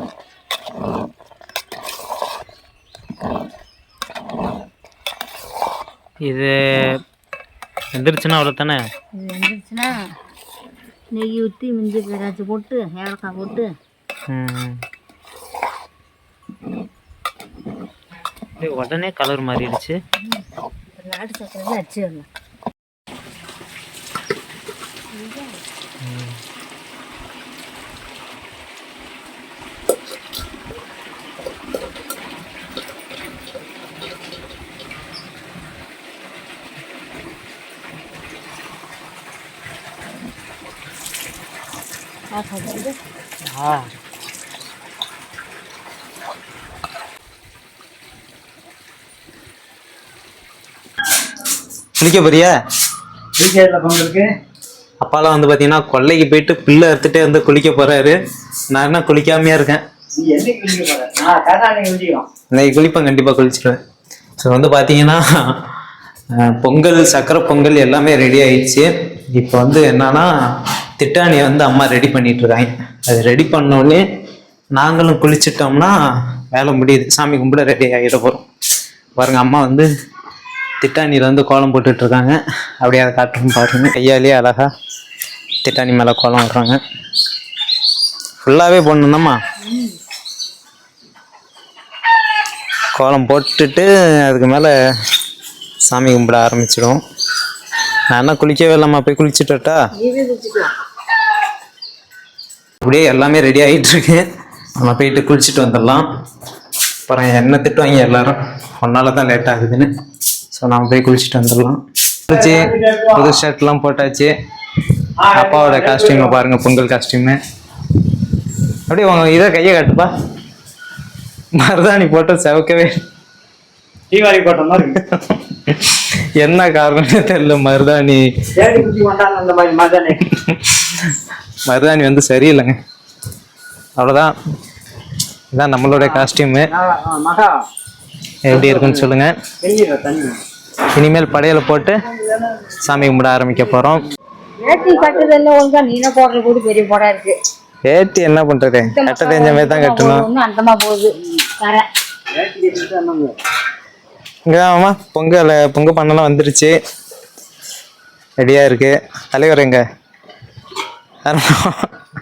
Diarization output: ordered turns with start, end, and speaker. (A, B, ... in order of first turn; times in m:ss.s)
0:06.2-0:07.0 A
0:07.9-0:08.8 A
0:09.1-0:10.1 B
0:11.1-0:13.7 B
0:14.3-0:14.8 A
0:18.6-0:19.9 A
0:21.0-0:22.3 B
0:25.1-0:25.6 B
0:26.0-0:26.4 A
0:42.3-0:43.0 B
0:52.0-0:52.6 A
0:53.4-0:54.3 C
0:55.0-0:58.2 A
0:58.7-0:59.8 A
1:00.2-1:02.3 C
1:02.5-1:03.8 A
1:04.4-1:05.6 A
1:06.3-1:10.3 A
1:11.0-1:14.0 A
1:14.7-1:15.9 A
1:16.5-1:18.4 A
1:19.2-1:19.9 A
1:20.8-1:24.7 A
1:25.6-1:26.8 A
1:28.4-1:29.4 A
1:29.6-1:30.0 B
1:33.0-1:34.7 A
1:35.9-1:37.0 A
1:38.1-1:39.8 A
1:40.0-1:40.7 B
1:42.8-1:44.2 A
1:44.8-1:46.1 A
1:47.1-1:49.9 A
1:50.5-1:54.3 A
1:52.3-1:53.4 C
1:55.2-1:56.4 C
1:55.3-1:57.4 A
1:58.9-2:00.1 A
2:01.6-2:03.0 A
2:04.1-2:05.0 C
2:05.0-2:08.2 A
2:08.6-2:10.2 C
2:10.3-2:11.2 A
2:11.7-2:12.8 A
2:14.0-2:14.3 A
2:15.5-2:16.7 A
2:15.9-2:17.5 C
2:18.5-2:19.4 A
2:18.5-2:19.1 C
2:19.6-2:20.4 C
2:21.0-2:22.0 A
2:22.8-2:24.0 A
2:24.6-2:27.4 B
2:24.6-2:25.3 C
2:27.9-2:30.3 A
2:28.9-2:31.9 B
2:32.3-2:33.3 C
2:34.5-2:36.8 A
2:38.4-2:39.8 A
2:41.2-2:41.9 A